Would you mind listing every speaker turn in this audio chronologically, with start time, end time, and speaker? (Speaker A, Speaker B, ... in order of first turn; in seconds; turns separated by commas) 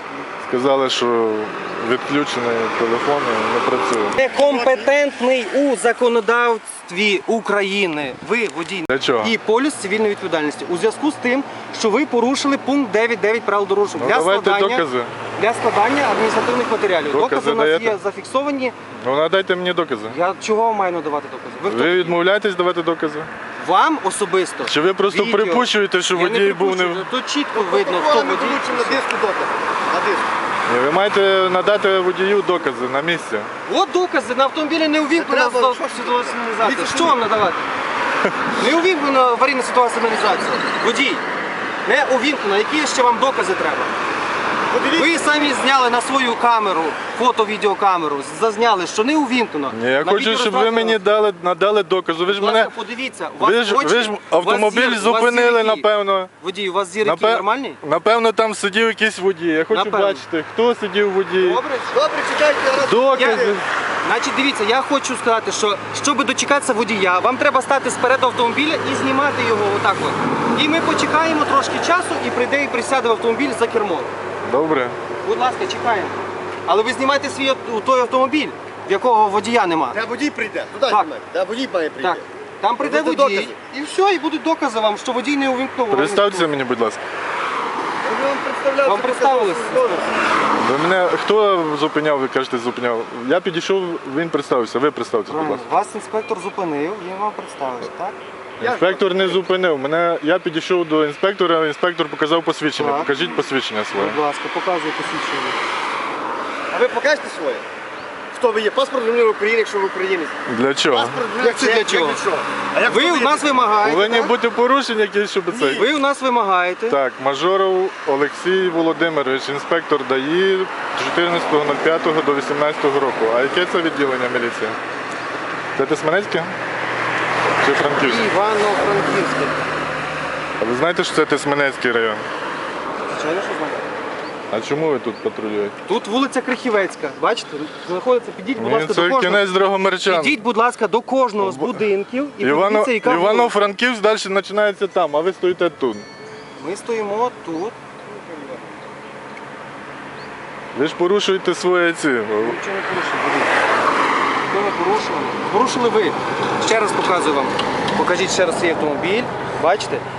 Speaker A: 0.5-4.2, Speaker B: 4.2-18.8, Speaker C: 4.3-4.8, Speaker A: 8.9-9.3, Speaker A: 13.9-15.1, Speaker A: 17.1-18.0, Speaker A: 19.0-20.2, Speaker B: 20.1-22.2, Speaker A: 21.6-23.3, Speaker B: 23.6-29.0, Speaker A: 24.6-27.1, Speaker C: 27.5-30.3, Speaker A: 30.7-33.5, Speaker B: 33.6-37.7, Speaker C: 35.1-37.2, Speaker B: 38.6-41.2, Speaker B: 41.8-43.9, Speaker C: 44.7-45.5, Speaker B: 44.9-51.0, Speaker A: 49.7-52.7, Speaker B: 52.3-57.8, Speaker A: 53.4-56.3, Speaker A: 57.0-61.6, Speaker B: 59.7-60.2, Speaker B: 61.4-62.0, Speaker C: 61.9-63.6, Speaker A: 62.8-63.6, Speaker B: 63.1-74.1, Speaker A: 74.4-75.0, Speaker B: 75.2-80.0, Speaker C: 79.9-82.3, Speaker B: 82.0-86.5, Speaker C: 82.8-83.6, Speaker A: 85.9-87.0, Speaker C: 88.0-90.1, Speaker B: 88.8-90.0, Speaker A: 90.5-95.6, Speaker B: 95.3-98.2, Speaker C: 98.6-99.4, Speaker A: 98.6-104.2, Speaker B: 102.7-103.1, Speaker B: 103.9-105.6, Speaker C: 106.7-107.6, Speaker C: 108.3-110.3, Speaker A: 110.5-111.2, Speaker C: 110.9-113.5, Speaker B: 111.4-112.2, Speaker B: 112.8-114.3, Speaker A: 113.8-115.9, Speaker C: 115.5-115.9, Speaker B: 115.7-117.0, Speaker A: 116.9-124.8, Speaker A: 125.8-126.5, Speaker A: 127.6-128.2, Speaker B: 128.0-129.7, Speaker A: 130.6-132.2, Speaker B: 133.0-133.9, Speaker A: 134.5-135.7, Speaker B: 135.8-139.5, Speaker A: 138.6-140.4, Speaker B: 140.0-143.6, Speaker A: 141.4-141.8, Speaker A: 142.4-146.1, Speaker B: 146.6-147.8, Speaker C: 148.1-148.6, Speaker A: 150.7-152.6, Speaker B: 152.3-153.6, Speaker B: 154.5-160.0